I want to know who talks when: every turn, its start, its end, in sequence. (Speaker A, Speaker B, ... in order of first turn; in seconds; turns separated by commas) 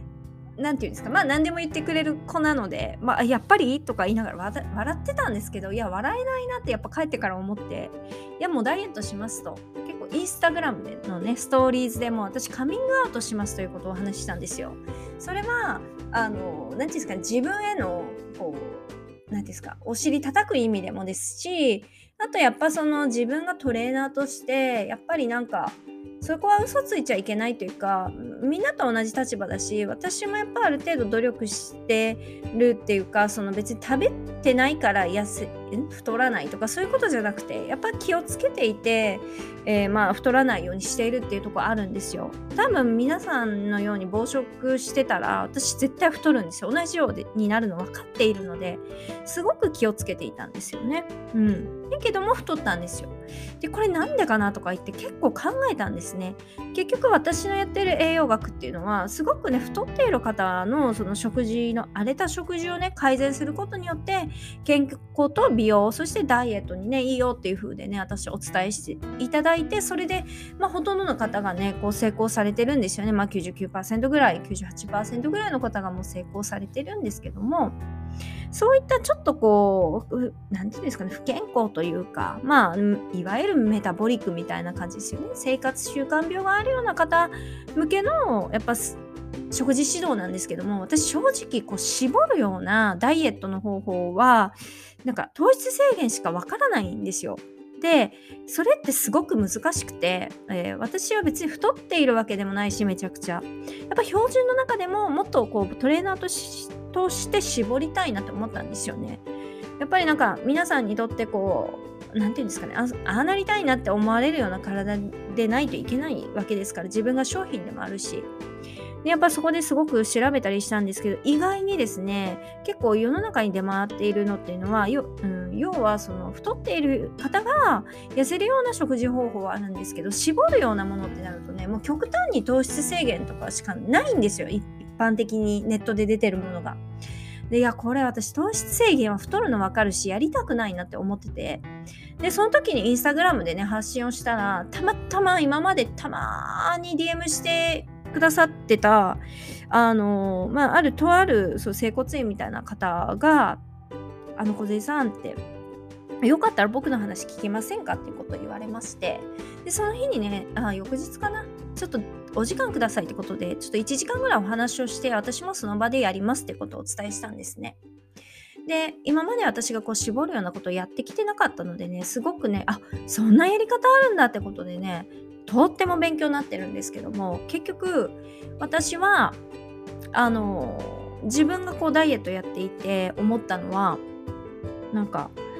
Speaker A: 0.6-77.8, Speaker A: 78.5-89.0, Speaker A: 89.5-109.2, Speaker A: 109.8-118.3, Speaker A: 119.0-136.8, Speaker A: 137.5-141.7, Speaker A: 142.2-153.6, Speaker A: 154.3-155.4, Speaker A: 156.2-167.8, Speaker A: 168.6-179.4, Speaker A: 180.1-184.0, Speaker A: 184.9-185.3